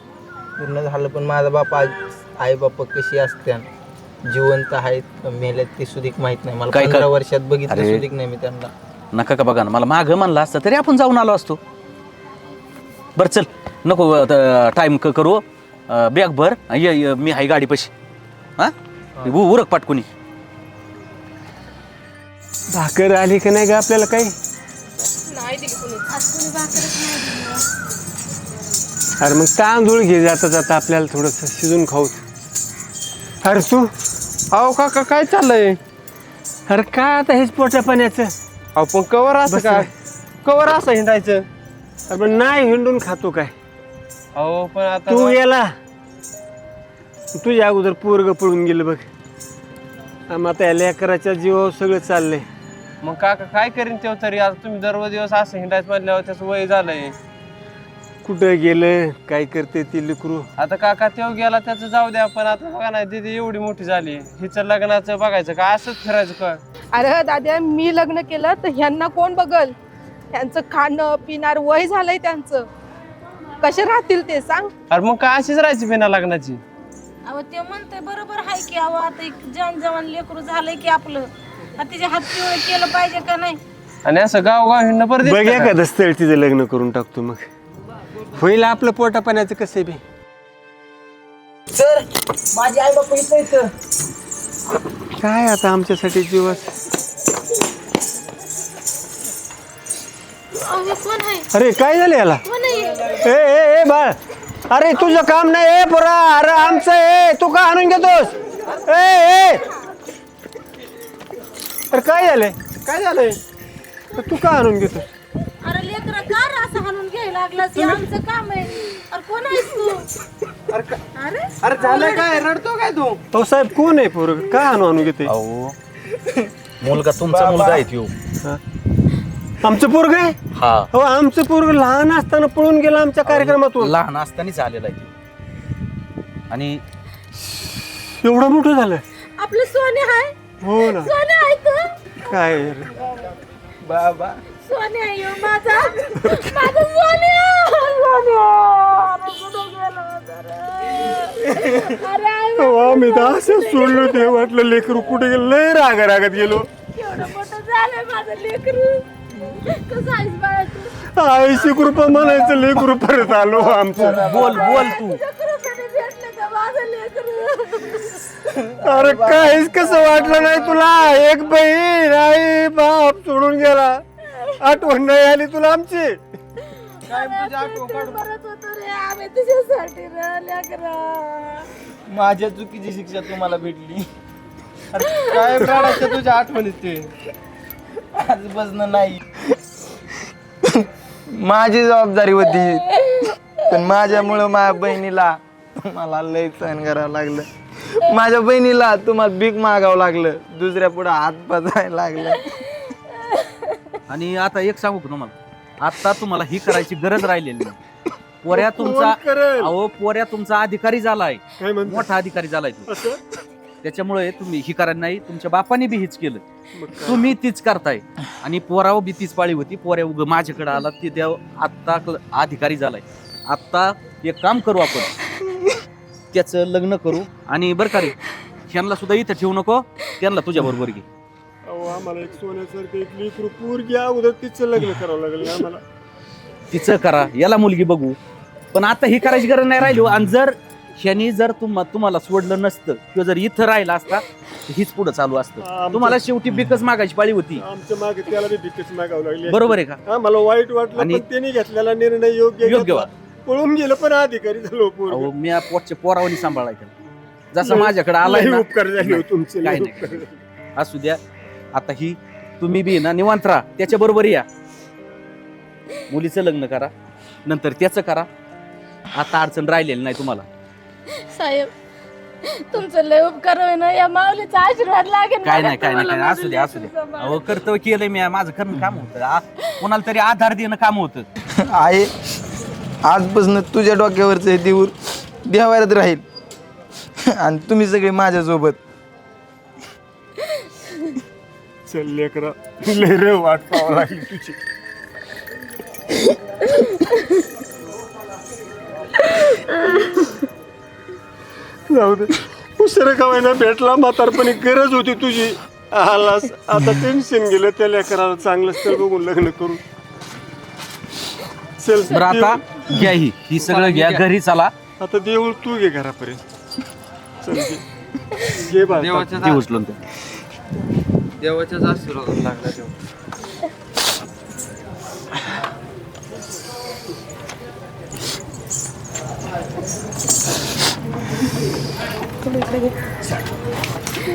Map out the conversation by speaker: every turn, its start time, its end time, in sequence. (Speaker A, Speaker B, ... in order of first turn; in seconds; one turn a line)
Speaker A: 0.6-3.7
Speaker A: 4.2-8.7
Speaker B: 6.7-7.1
Speaker B: 7.7-8.0
Speaker B: 9.1-11.6
Speaker B: 13.2-17.9
Speaker B: 18.6-20.1
Speaker C: 22.7-24.3
Speaker D: 25.3-26.1
Speaker E: 26.1-27.6
Speaker C: 29.2-32.2
Speaker C: 33.4-33.9
Speaker F: 34.5-35.8
Speaker C: 36.7-38.3
Speaker F: 38.8-39.9
Speaker C: 39.5-39.9
Speaker F: 40.4-41.5
Speaker C: 42.1-43.5
Speaker F: 44.4-45.4
Speaker C: 45.1-45.7
Speaker C: 47.4-49.0
Speaker C: 50.3-52.5
Speaker F: 53.0-57.1
Speaker C: 58.2-60.5
Speaker F: 60.6-66.6
Speaker D: 66.9-69.7
Speaker D: 70.3-72.7
Speaker D: 73.6-74.7
Speaker F: 74.9-76.6
Speaker E: 77.3-83.6
Speaker F: 84.0-85.7
Speaker C: 85.2-87.5
Speaker C: 88.3-90.0
Speaker A: 91.7-93.7
Speaker C: 95.2-96.7
Speaker E: 100.6-101.5
Speaker C: 101.5-102.4
Speaker E: 102.5-103.2
Speaker C: 103.1-104.2
Speaker C: 104.7-109.6
Speaker C: 111.9-112.6
Speaker F: 112.8-113.4
Speaker C: 114.1-115.1
Speaker E: 115.6-120.1
Speaker F: 120.7-121.0
Speaker E: 121.2-122.5
Speaker F: 121.6-123.2
Speaker C: 123.3-125.3
Speaker B: 125.2-125.8
Speaker A: 126.2-126.5
Speaker B: 126.8-128.1
Speaker A: 127.2-127.9
Speaker C: 129.6-130.4
Speaker B: 130.6-130.9
Speaker C: 130.9-133.9
Speaker B: 133.2-135.1
Speaker B: 136.5-136.8
Speaker C: 138.2-139.0
Speaker E: 139.4-141.9
Speaker C: 140.6-141.1
Speaker C: 142.3-142.9
Speaker A: 143.8-144.4
Speaker E: 144.6-154.5
Speaker A: 151.5-151.9
Speaker C: 152.6-156.7
Speaker E: 156.4-160.9
Speaker C: 161.2-164.3
Speaker A: 162.1-165.0
Speaker B: 164.1-165.2
Speaker E: 164.3-168.4
Speaker A: 168.5-170.9
Speaker C: 168.8-174.0
Speaker C: 174.6-176.2
Speaker E: 176.7-181.7
Speaker A: 177.1-178.2
Speaker A: 182.1-184.1
Speaker F: 185.0-187.1
Speaker E: 185.1-185.4
Speaker A: 188.1-189.6
Speaker A: 190.6-192.9
Speaker A: 193.6-202.6
Speaker B: 204.1-207.8
Speaker B: 208.4-212.9
Speaker C: 208.5-209.7
Speaker C: 211.6-212.2
Speaker C: 212.9-213.2
Speaker B: 213.8-216.4
Speaker C: 216.8-217.3
Speaker B: 217.0-225.1
Speaker B: 226.3-228.2
Speaker B: 228.7-231.1
Speaker C: 231.7-235.8
Speaker B: 236.7-238.2
Speaker B: 238.7-247.6
Speaker C: 245.6-246.2
Speaker C: 247.6-255.3
Speaker B: 249.5-250.0
Speaker B: 251.0-251.2
Speaker B: 252.6-253.1
Speaker B: 255.1-256.9
Speaker B: 257.5-260.2
Speaker C: 257.6-260.4
Speaker B: 260.8-261.2
Speaker B: 261.7-264.5
Speaker B: 266.1-266.9
Speaker B: 267.5-268.3
Speaker B: 269.1-270.5
Speaker E: 271.2-271.7
Speaker E: 272.5-277.6
Speaker B: 275.4-281.3
Speaker A: 281.6-282.1
Speaker A: 283.1-286.2
Speaker A: 287.3-288.8
Speaker C: 291.9-294.6
Speaker C: 301.9-309.8
Speaker C: 311.8-313.1
Speaker B: 312.1-314.7
Speaker F: 313.6-314.2
Speaker C: 315.0-316.4
Speaker C: 317.4-317.8
Speaker C: 318.4-319.4
Speaker F: 318.9-319.6
Speaker B: 319.3-320.0
Speaker F: 321.4-322.9
Speaker D: 332.4-332.9